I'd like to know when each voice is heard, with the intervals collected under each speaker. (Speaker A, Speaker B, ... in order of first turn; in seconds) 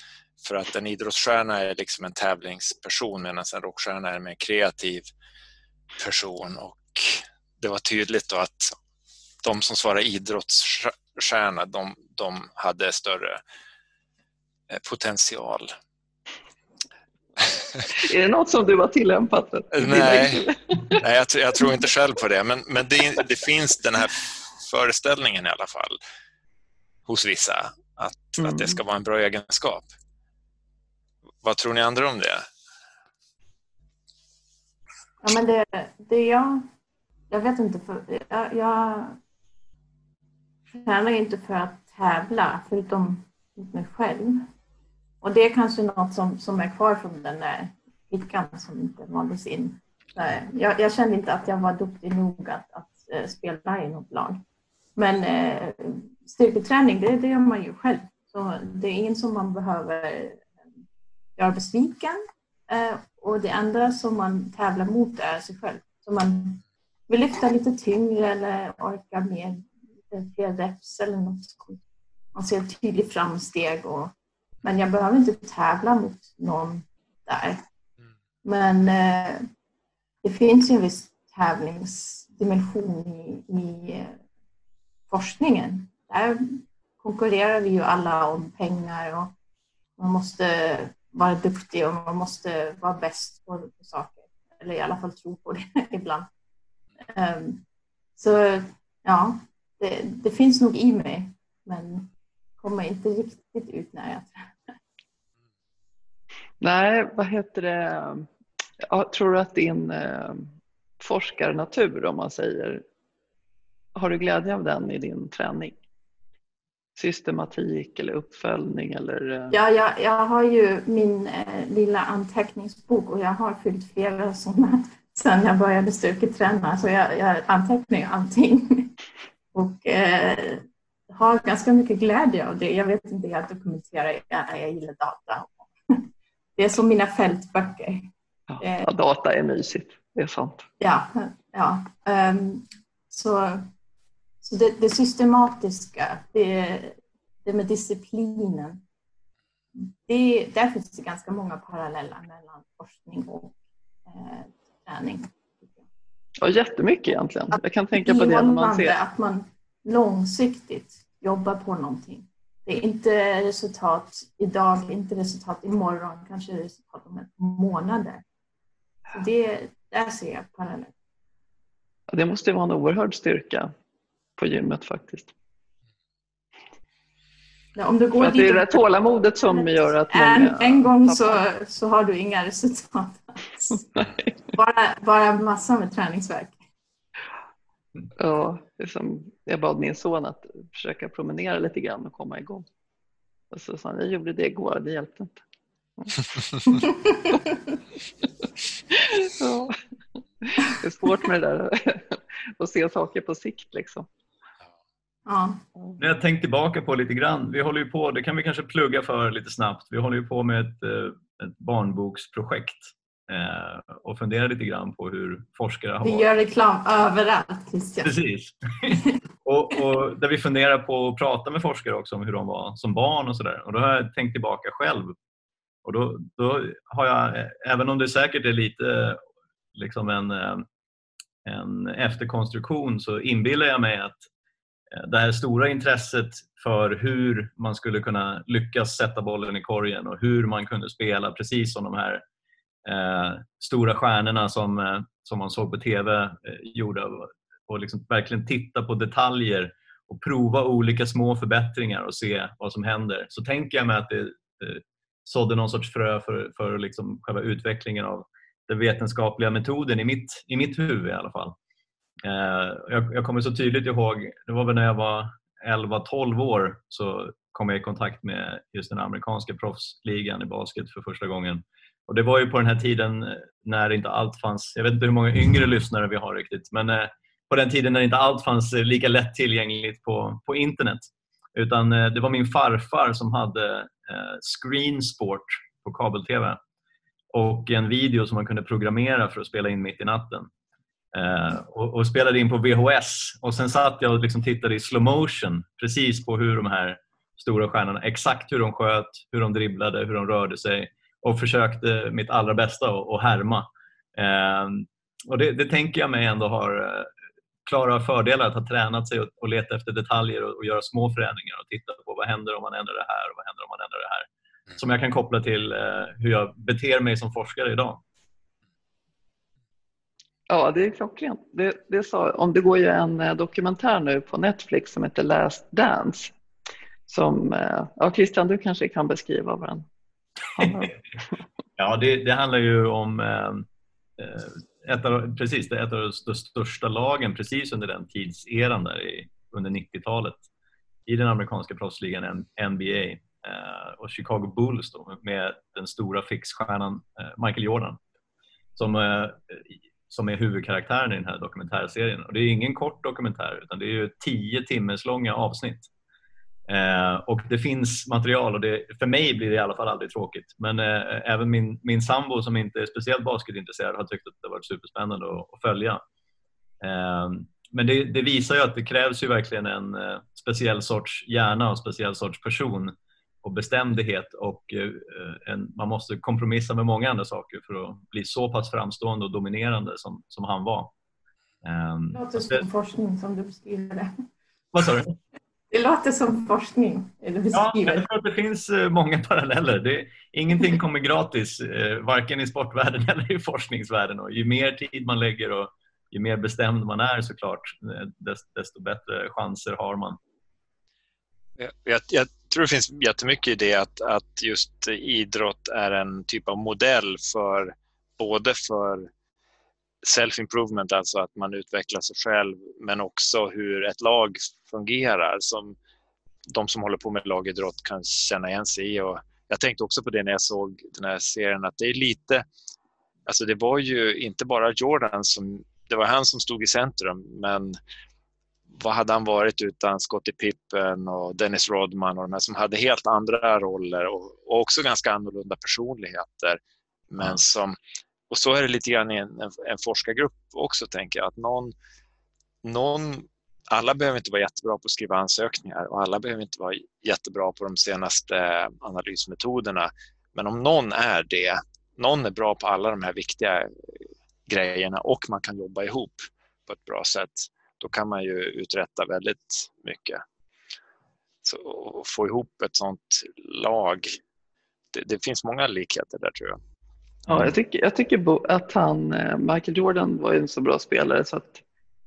Speaker A: 0.4-5.1, 6.0-8.7, 9.4-13.4, 14.7-15.7, 19.7-26.0, 27.1-29.9, 31.4-32.4, 401.6-409.1, 410.0-415.8, 416.5-422.4, 423.2-427.8, 428.7-436.6, 437.1-437.8, 438.3-441.7, 442.6-460.2, 461.4-464.2, 464.9-466.6
Speaker B: 17.9-21.0, 28.4-28.8, 106.6-108.3, 108.8-110.5, 111.0-112.8, 113.9-115.7, 117.0-119.5, 138.5-140.7, 156.4-158.9, 172.1-173.7, 174.4-175.3, 178.2-181.4, 188.2-192.7, 193.5-195.4, 196.0-197.1, 198.9-199.7, 200.4-204.1, 320.5-326.3, 327.1-329.8, 330.5-331.0, 467.3-471.6
Speaker C: 35.2-36.6, 37.3-39.2, 40.7-44.5, 45.2-54.4, 55.0-60.5, 61.4-71.8, 72.3-74.1, 74.6-77.6, 78.4-79.5, 80.2-84.2, 85.1-89.3, 90.0-96.3, 97.1-97.6, 98.2-102.1, 102.6-104.4, 119.5-128.9, 129.5-136.0, 136.6-138.1, 138.6-138.9, 140.8-143.7, 144.4-148.8, 149.8-155.8, 157.5-168.2, 169.1-170.9, 177.7-178.7, 179.4-183.8, 184.5-186.6, 205.2-205.6, 216.0-218.1, 382.1-384.1, 385.7-388.1
Speaker D: 206.0-216.3, 218.0-225.1, 225.8-229.2, 229.7-230.7, 231.4-234.2, 234.9-242.2, 242.8-261.5, 262.2-286.6, 287.3-290.5, 291.1-307.1, 307.6-318.0, 331.8-333.6, 334.2-340.4, 341.1-348.0, 348.8-355.9, 356.7-366.0, 366.8-380.9, 381.6-382.6, 384.7-385.1, 387.5-400.2